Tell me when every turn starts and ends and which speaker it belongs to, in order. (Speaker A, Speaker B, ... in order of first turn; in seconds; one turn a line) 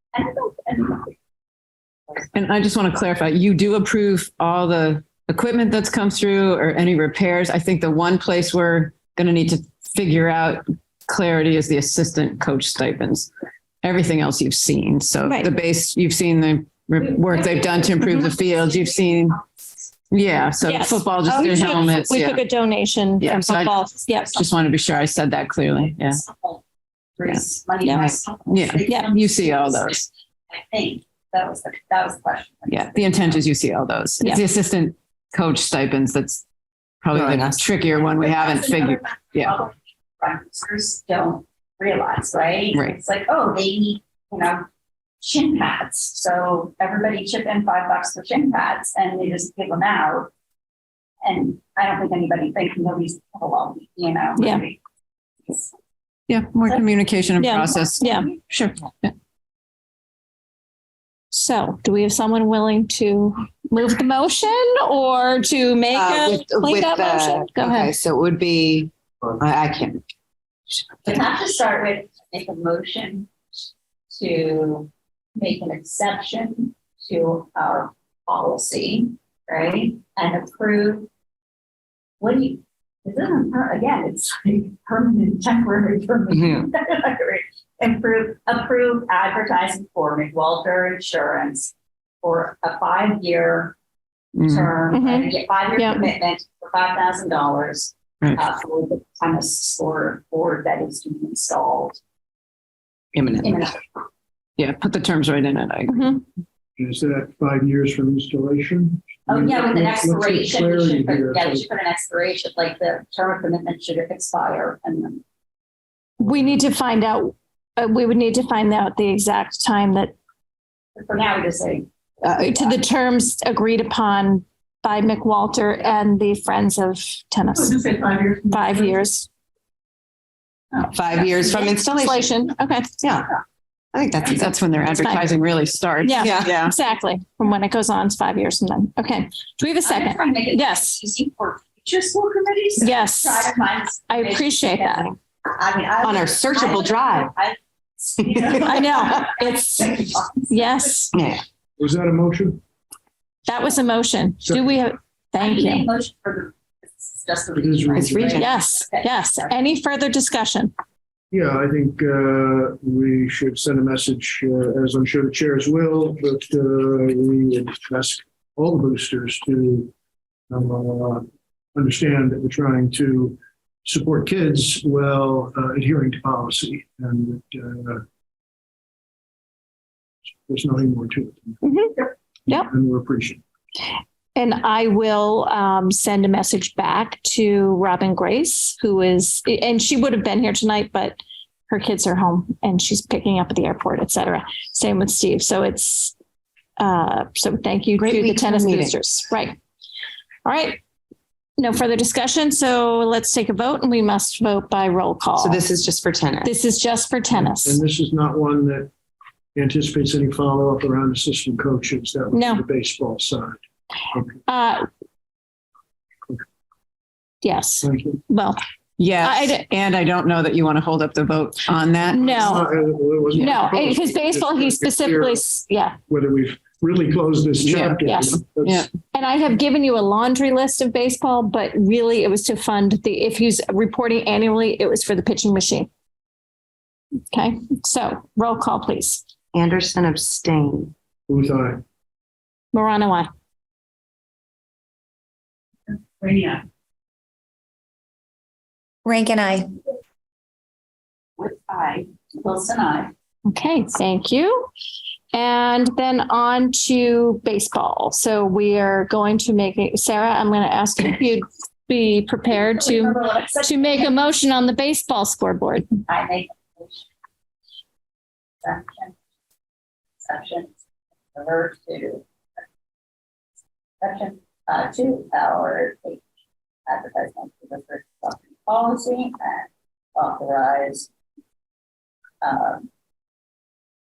Speaker A: 0.1-1.1
Speaker B: 2.3-13.3
Speaker B: 13.8-19.4
Speaker C: 15.2-15.5
Speaker A: 17.1-19.4
Speaker B: 20.1-22.4
Speaker C: 20.6-24.3
Speaker A: 21.4-21.8
Speaker B: 23.2-26.2
Speaker A: 24.1-24.5
Speaker A: 26.0-26.6
Speaker A: 27.2-33.4
Speaker B: 27.3-30.0
Speaker C: 27.8-28.1
Speaker B: 32.7-36.5
Speaker C: 34.2-34.5
Speaker B: 37.0-39.5
Speaker D: 37.2-37.6
Speaker A: 38.2-44.6
Speaker A: 45.2-50.3
Speaker A: 51.2-54.8
Speaker C: 54.4-54.6
Speaker B: 56.3-58.1
Speaker C: 57.4-58.3
Speaker A: 57.7-58.8
Speaker C: 61.3-67.9
Speaker D: 65.9-70.0
Speaker A: 71.0-73.3
Speaker A: 74.1-81.1
Speaker A: 82.2-93.8
Speaker D: 86.3-86.7
Speaker B: 94.4-94.7
Speaker A: 94.5-102.0
Speaker C: 94.9-96.1
Speaker B: 103.1-103.6
Speaker A: 103.4-103.8
Speaker B: 104.6-106.2
Speaker C: 105.9-106.2
Speaker E: 106.8-111.7
Speaker A: 109.3-115.2
Speaker C: 116.2-120.2
Speaker A: 121.0-121.9
Speaker C: 122.3-127.8
Speaker A: 127.7-128.8
Speaker C: 128.5-129.3
Speaker A: 130.7-131.7
Speaker D: 130.9-132.4
Speaker C: 131.5-133.0
Speaker D: 133.0-133.3
Speaker D: 133.9-135.3
Speaker B: 134.3-136.7
Speaker C: 136.0-141.0
Speaker D: 136.2-136.5
Speaker A: 139.8-150.8
Speaker C: 142.8-143.5
Speaker C: 144.1-145.1
Speaker D: 146.0-147.3
Speaker D: 148.2-149.0
Speaker C: 148.5-151.1
Speaker D: 151.1-151.4
Speaker E: 151.8-152.6
Speaker C: 153.5-155.9
Speaker E: 154.4-154.8
Speaker A: 155.4-159.6
Speaker E: 157.6-158.4
Speaker D: 157.9-158.5
Speaker C: 158.3-160.7
Speaker E: 161.3-169.9
Speaker E: 170.5-178.0
Speaker E: 180.5-181.6
Speaker C: 181.6-182.7
Speaker E: 182.5-183.4
Speaker C: 184.4-191.2
Speaker C: 191.7-196.2
Speaker C: 196.8-199.6
Speaker D: 198.0-198.9
Speaker C: 200.4-200.8
Speaker C: 201.6-205.6
Speaker D: 205.4-206.5
Speaker C: 206.4-207.8
Speaker E: 207.3-208.9
Speaker E: 209.6-213.6
Speaker C: 212.3-212.6
Speaker E: 214.1-214.4
Speaker C: 214.5-214.9
Speaker C: 217.4-218.6
Speaker E: 217.8-218.2
Speaker B: 219.0-222.4
Speaker C: 219.2-219.7
Speaker E: 222.1-225.6
Speaker C: 222.2-222.7
Speaker C: 223.4-226.0
Speaker E: 226.1-228.9
Speaker B: 227.6-228.0
Speaker C: 228.0-228.4
Speaker C: 229.1-235.9
Speaker C: 237.3-239.2
Speaker D: 239.5-240.9
Speaker E: 241.3-241.8
Speaker C: 242.7-243.3
Speaker A: 245.9-246.6
Speaker A: 251.4-253.1
Speaker C: 253.5-254.7
Speaker C: 255.3-265.9
Speaker A: 262.5-264.1
Speaker A: 266.1-267.1
Speaker A: 268.6-269.1
Speaker A: 270.2-270.7
Speaker A: 271.3-272.3
Speaker A: 274.0-276.2
Speaker A: 276.9-281.1
Speaker A: 282.4-282.9